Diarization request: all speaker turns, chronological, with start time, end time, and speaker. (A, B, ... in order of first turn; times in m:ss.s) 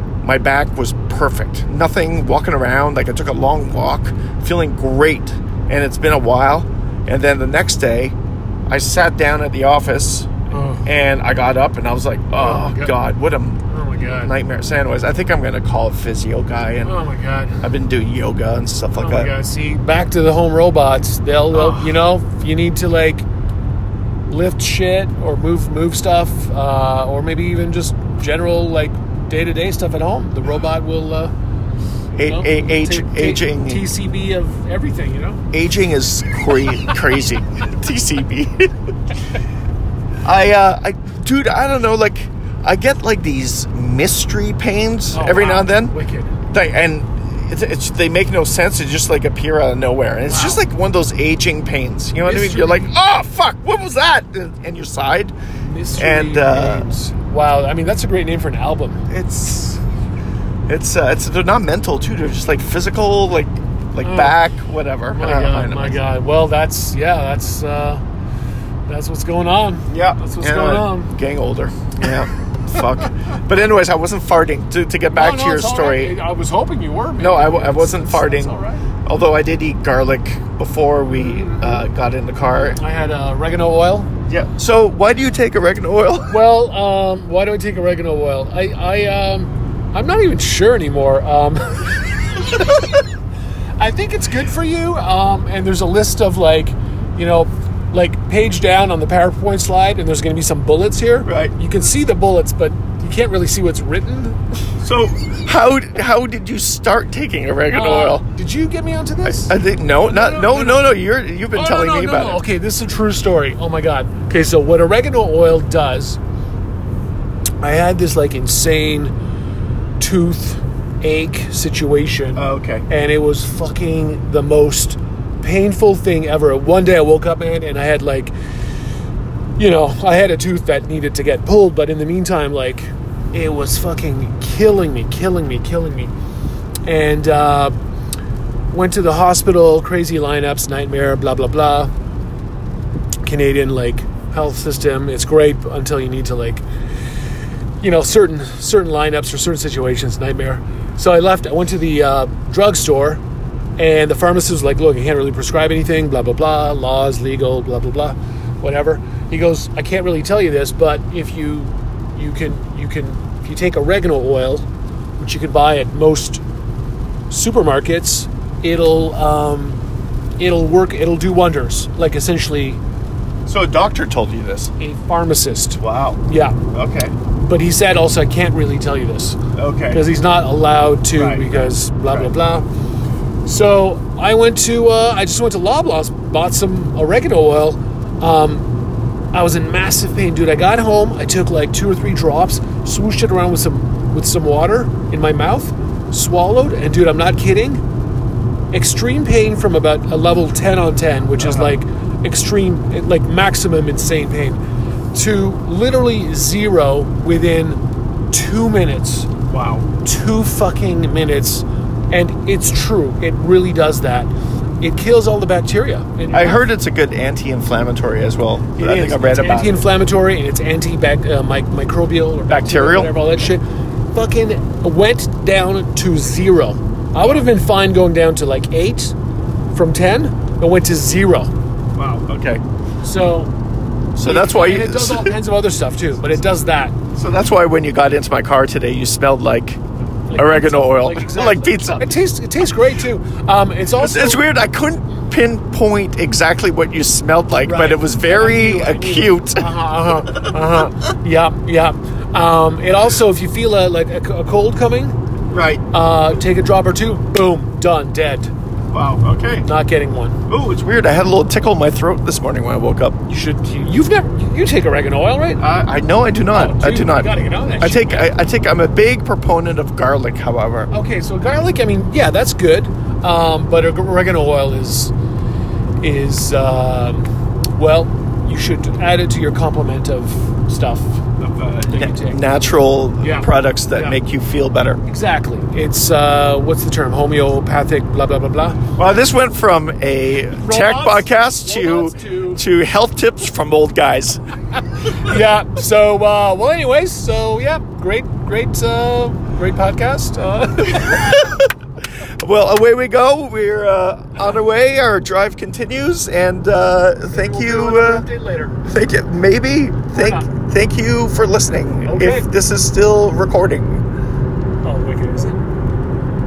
0:00.2-0:08.1 A
0:08.7-0:10.3 A
0:10.5-0:10.9 B
0:10.8-0:13.6 A
0:12.4-0:12.9 B
0:13.7-0:14.3 B
0:14.2-0:17.0 A
0:16.8-0:17.6 B
0:17.6-0:19.3 A
0:18.9-0:23.2 B
0:21.5-0:22.0 A
0:24.3-0:31.3 B
0:32.2-0:33.8 A
0:32.2-0:35.4 B
0:35.5-0:38.7 A
0:40.2-0:45.9 A
0:45.1-0:46.4 B
0:46.5-0:55.3 A
0:50.2-0:50.6 B
0:52.2-0:52.9 B
0:55.6-0:59.0 B
0:56.0-0:56.9 A
0:59.1-0:59.8 A
1:00.7-1:06.0 A
1:04.0-1:04.4 B
1:05.1-1:08.0 B
1:08.9-1:11.1 B
1:09.9-1:16.1 A
1:15.1-1:18.8 B
1:17.2-1:22.8 A
1:21.1-1:21.8 B
1:22.7-1:24.1 B
1:24.3-1:26.3 A
1:26.3-1:32.8 B
1:33.8-1:44.4 B
1:41.2-1:41.5 A
1:44.8-1:48.2 A
1:47.7-1:50.8 B
1:49.2-1:52.4 A
1:51.5-1:56.2 B
1:57.6-1:59.1 B
2:00.0-2:08.3 B
2:02.4-2:02.8 A
2:09.6-2:16.1 B
2:16.8-2:17.7 B
2:18.7-2:21.9 B
2:23.2-2:26.6 B
2:27.8-2:33.2 B
2:33.8-2:44.6 B
2:45.2-2:46.4 B
2:47.3-2:49.8 B
2:50.4-2:52.8 B
2:53.4-2:54.7 A
2:54.8-2:56.6 B
2:55.8-2:56.2 A
2:56.7-2:57.1 A
2:57.3-2:59.4 B
2:59.6-3:00.0 A
2:59.9-3:02.6 B
3:01.1-3:02.3 A
3:03.4-3:08.7 B
3:09.3-3:17.8 B
3:18.7-3:24.6 B
3:21.4-3:21.7 A
3:25.1-3:27.8 B
3:28.3-3:36.6 B
3:29.5-3:29.8 A
3:36.3-3:39.8 A
3:38.8-3:49.1 B
3:42.5-3:43.1 A
3:49.7-3:51.5 B
3:52.0-3:52.6 A
3:53.0-3:53.5 B
3:54.2-3:55.3 A
3:54.2-3:57.0 B
3:57.2-3:59.8 A
4:00.2-4:04.4 B
4:00.4-4:02.1 A
4:04.0-4:09.7 A
4:07.6-4:15.2 B
4:10.3-4:10.6 A
4:15.5-4:15.8 A
4:15.9-4:18.5 B
4:18.9-4:19.7 A
4:19.6-4:20.4 B
4:20.5-4:23.2 A
4:23.3-4:25.6 B
4:25.6-4:30.9 A
4:26.5-4:28.3 B
4:30.9-4:35.1 B
4:36.0-4:42.4 B
4:41.4-4:45.0 A
4:43.2-4:44.2 B
4:45.0-4:48.8 B
4:49.0-4:54.4 A
4:50.5-4:52.6 B
4:55.0-5:01.3 B
5:01.0-5:01.7 A
5:02.4-5:08.2 A
5:07.3-5:08.8 B
5:08.8-5:14.0 A
5:10.1-5:10.5 B
5:12.0-5:12.5 B
5:14.8-5:15.6 B